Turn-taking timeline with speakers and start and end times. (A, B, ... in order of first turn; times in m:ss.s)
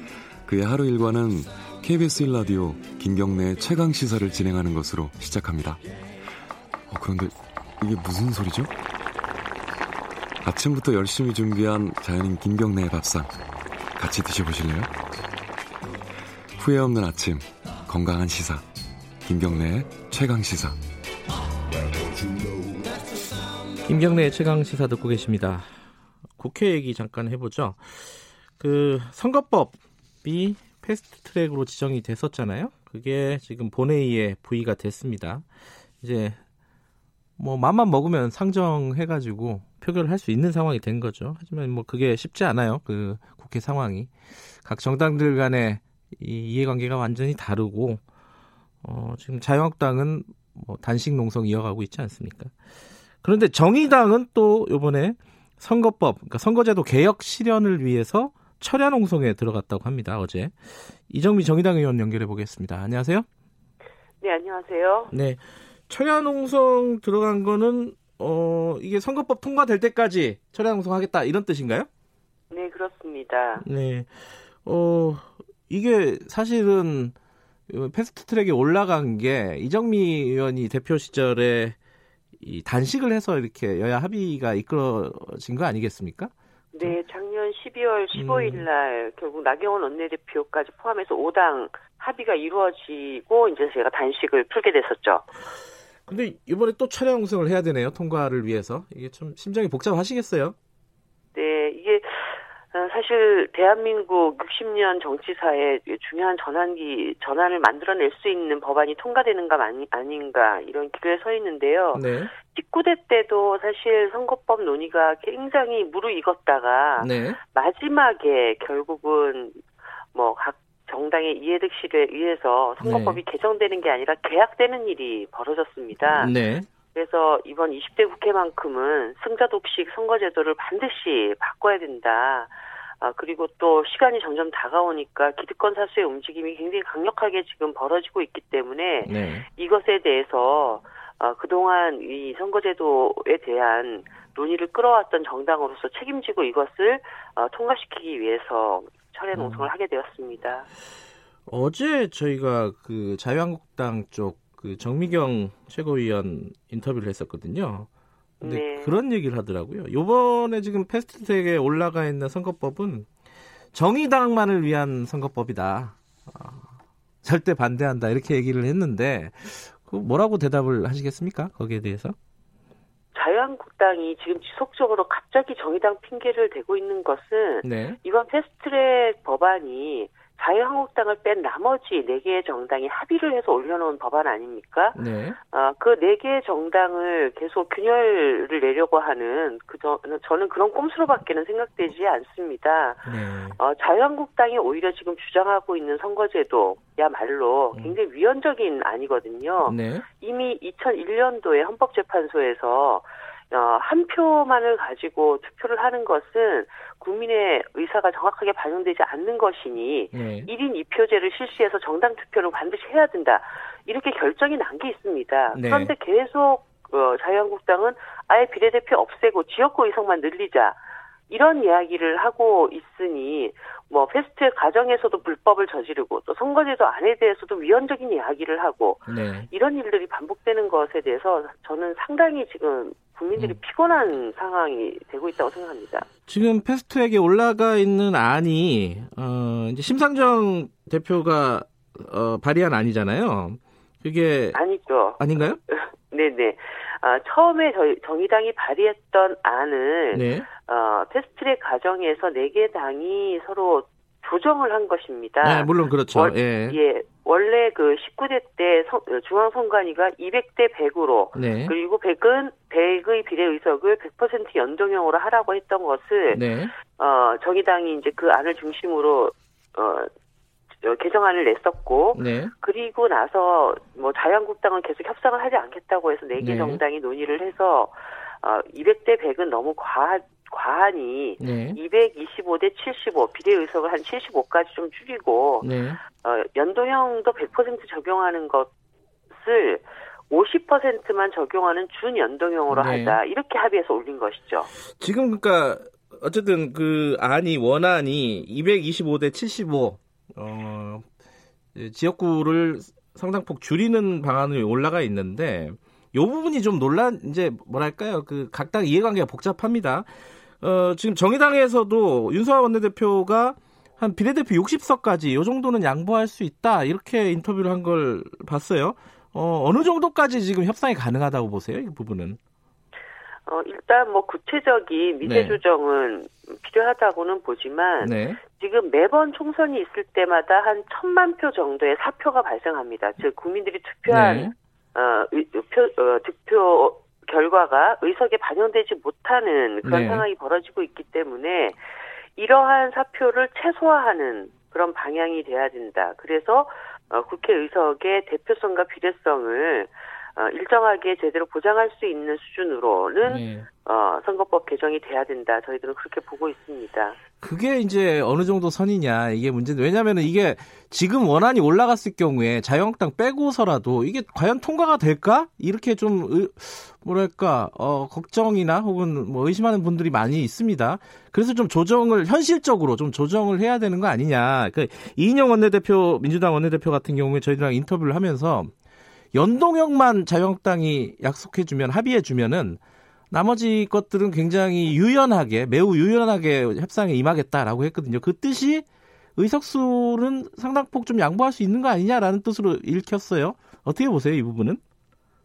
0:00.4-0:05.8 A
0:06.9-0:08.7 A
0:10.4-0:13.3 A
0:14.0-0:14.9 A
0:16.6-0:18.6 A
0:19.2-0:20.8 A
0:23.9-0:25.7 B
0:26.4-0:35.4 B
0:36.0-0:36.4 B
0:37.4-0:44.1 B
0:44.6-0:48.0 B
0:48.8-0:52.5 B
0:53.2-1:00.6 B
1:01.1-1:03.3 B
1:04.2-1:05.1 C
1:05.1-1:11.9 B
1:12.5-1:13.6 C
1:13.6-1:17.2 B
1:17.7-1:21.8 B
1:22.4-1:27.0 B
1:26.7-1:35.3 C
1:28.1-1:28.7 B
1:36.1-1:40.5 B
1:41.3-1:59.6 C
1:51.9-1:52.3 B
1:57.0-1:57.4 B
2:00.1-2:06.3 C
2:02.8-2:03.2 B
2:06.1-2:06.7 B
2:06.9-2:30.7 C
2:19.0-2:19.5 B
2:29.3-2:29.7 B
2:31.5-2:37.9 B
2:38.4-2:39.0 C
2:38.4-2:43.1 B
2:43.7-2:46.7 B
2:47.2-2:52.2 B
2:53.1-3:05.0 C
2:57.6-2:58.0 B
3:05.0-3:05.4 B
3:05.5-3:40.8 C
3:13.0-3:13.6 B
3:19.7-3:20.0 B
3:30.1-3:30.5 B
3:35.5-3:35.9 B
3:41.3-3:56.1 C
3:49.1-3:49.5 B
3:56.3-4:04.6 B
4:04.5-4:30.1 C
4:05.2-4:05.6 B
4:10.1-4:10.5 B
4:15.4-4:16.8 B
4:21.3-4:21.8 B
4:26.3-4:26.8 B
4:30.8-4:45.7 C
4:32.1-4:32.5 B
4:36.4-4:36.8 B
4:41.4-4:41.8 B
4:45.6-4:46.0 B
4:46.2-4:48.7 C
4:49.3-4:54.7 C
4:52.7-4:53.2 B
4:55.0-5:01.1 B
5:01.8-5:10.1 B
5:10.6-5:22.4 B
5:23.5-5:41.8 C
5:25.2-5:25.6 B
5:28.0-5:28.4 B
5:34.1-5:34.5 B
5:39.8-5:40.3 B
5:42.4-5:57.2 C
5:53.2-5:53.7 B
5:57.4-6:18.7 B
6:19.4-6:22.8 B
6:23.3-6:28.8 B
6:29.4-6:34.8 B